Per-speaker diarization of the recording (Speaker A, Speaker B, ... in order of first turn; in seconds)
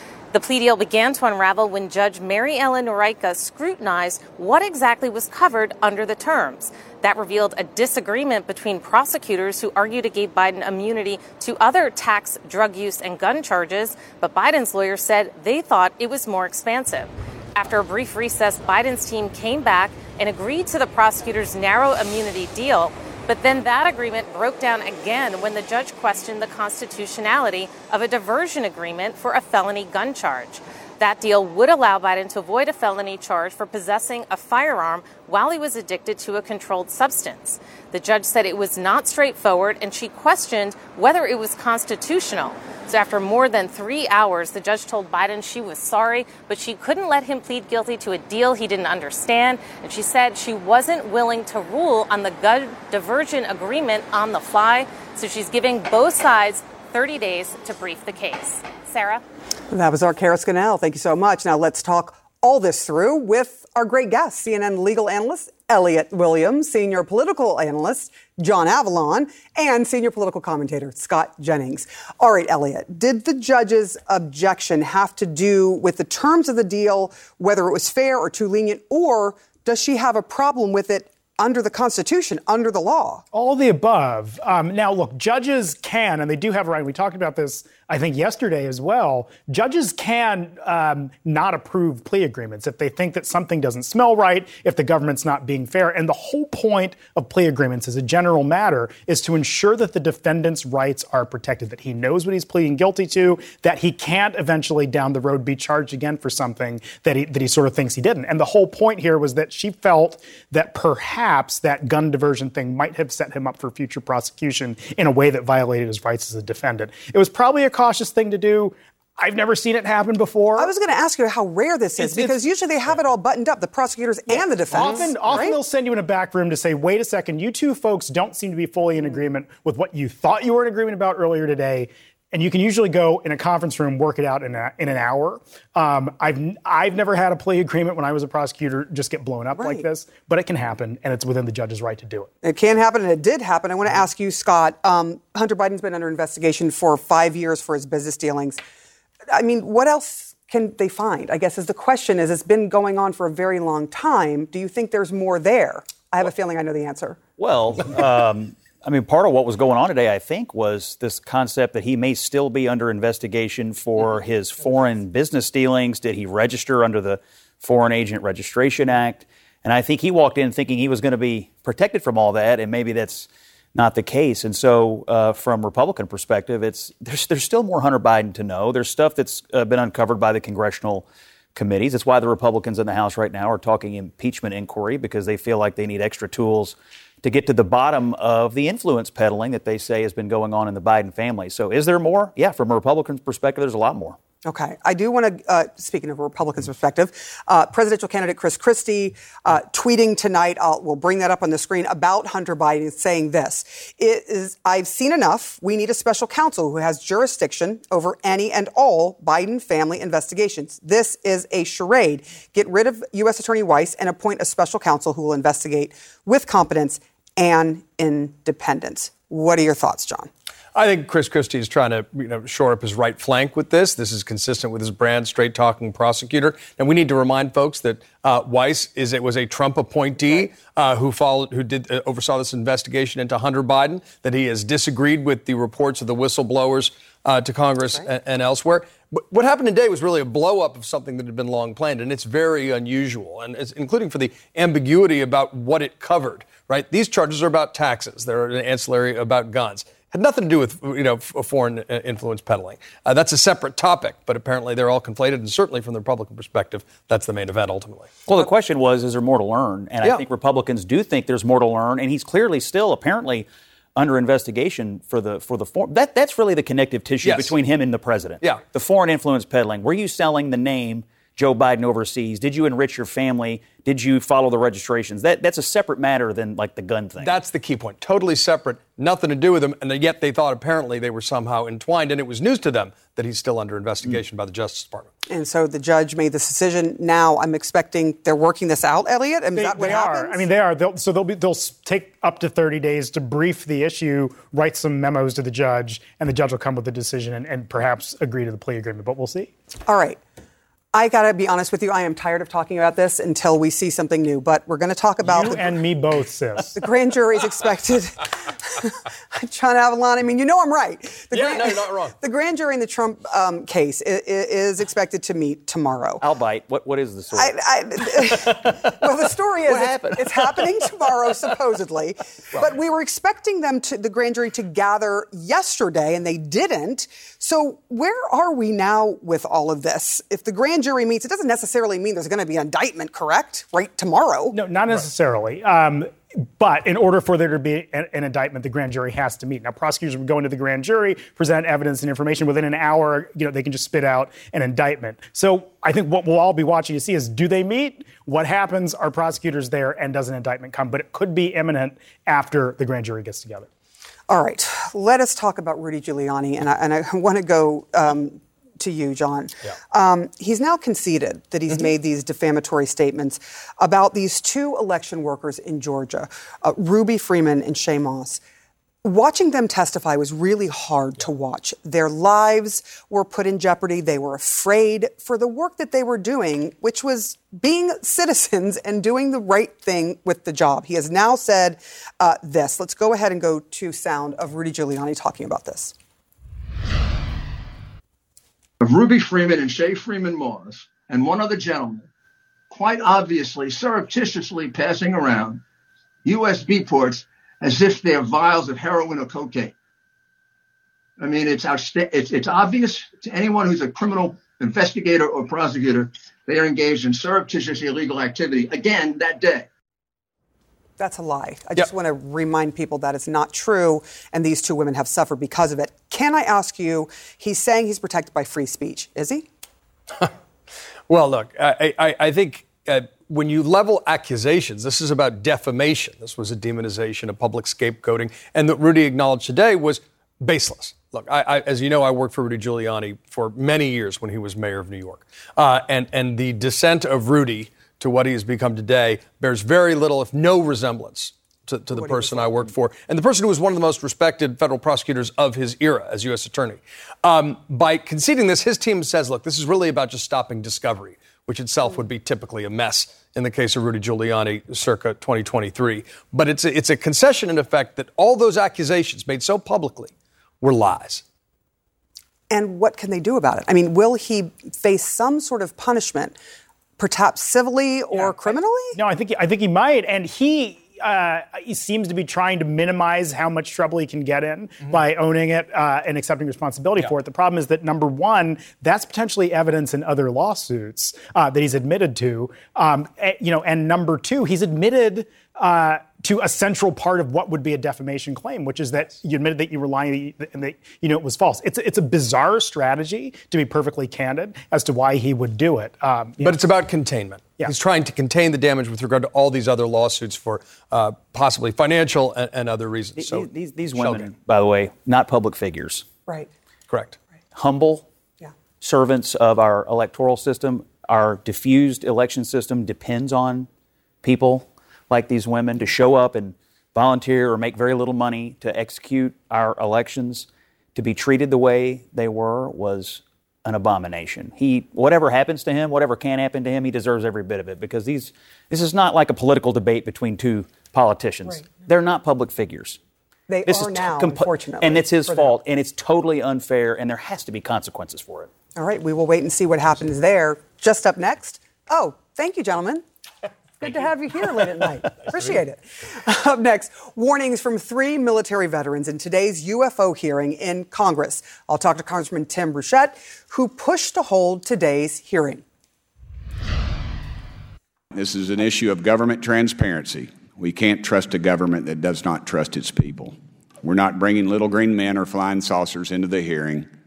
Speaker A: 0.3-59.2
Speaker B: 59.7-83.2, 120.5-125.6, 139.5-139.9, 142.4-148.6, 149.3-157.2, 194.4-220.3, 285.3-290.4, 299.9-300.2, 300.9-305.7, 306.7-316.2, 317.3-334.6, 354.3-368.4, 369.0-385.9, 411.0-419.5, 442.0-442.7, 462.5-466.4, 467.0-469.0, 533.5-535.5, 538.8-543.0, 543.8-555.6
Speaker C: 83.3-120.7, 122.0-122.4, 124.3-142.3, 289.5-299.5, 305.2-306.8, 334.5-353.7, 468.1-496.6
Speaker D: 157.4-194.2, 258.2-277.3, 316.2-318.9, 319.7-320.7, 503.1-506.1, 507.5-508.0, 508.8-513.7, 514.2-533.0, 533.6-538.5
Speaker E: 220.7-258.1, 267.2-267.6, 277.2-285.1, 311.3-312.1, 421.1-461.2, 496.4-504.3, 506.9-507.2
Speaker F: 388.8-392.1, 392.7-395.6, 396.2-399.7, 401.2-409.7
Speaker G: 558.1-566.9